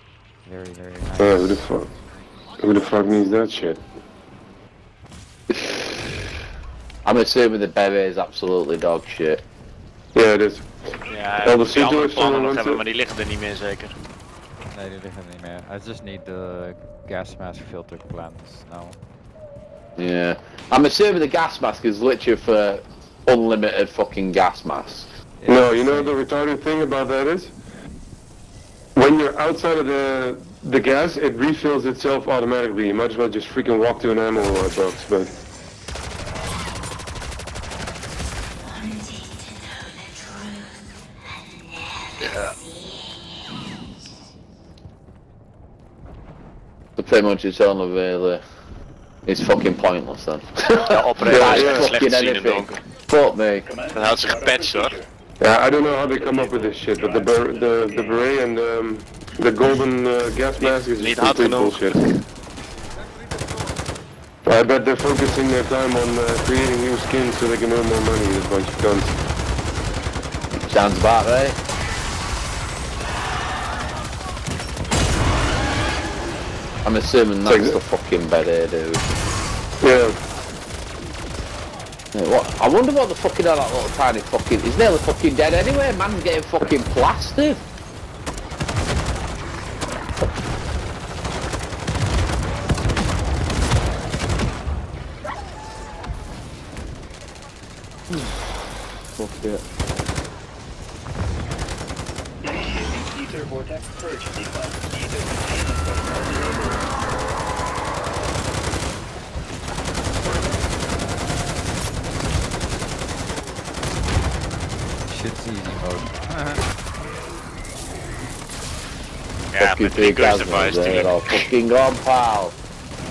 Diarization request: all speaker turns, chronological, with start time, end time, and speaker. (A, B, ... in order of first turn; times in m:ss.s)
0:00.4-0:01.6 A
0:01.2-0:01.9 B
0:02.6-0:03.8 B
0:07.0-0:09.4 C
0:10.1-0:10.7 B
0:11.1-0:13.9 D
0:11.4-0:12.8 B
0:14.7-0:19.0 A
0:20.0-0:25.1 C
0:25.4-0:26.2 A
0:25.4-0:27.5 B
0:28.9-0:35.4 B
0:47.0-0:48.4 C
0:49.2-0:53.7 C
0:50.8-0:52.8 D
0:51.2-0:51.9 B
0:53.9-0:55.0 D
0:55.4-1:02.0 B
1:00.6-1:02.2 D
1:04.4-1:09.1 B
1:10.6-1:11.6 C
1:16.8-1:19.0 C
1:17.4-1:17.8 B
1:19.8-1:20.2 B
1:22.1-1:27.6 C
1:38.1-1:38.4 C
1:39.2-1:39.6 C
1:43.0-1:46.6 E
1:55.1-1:56.6 A
1:59.5-2:01.4 D
1:59.6-2:02.6 C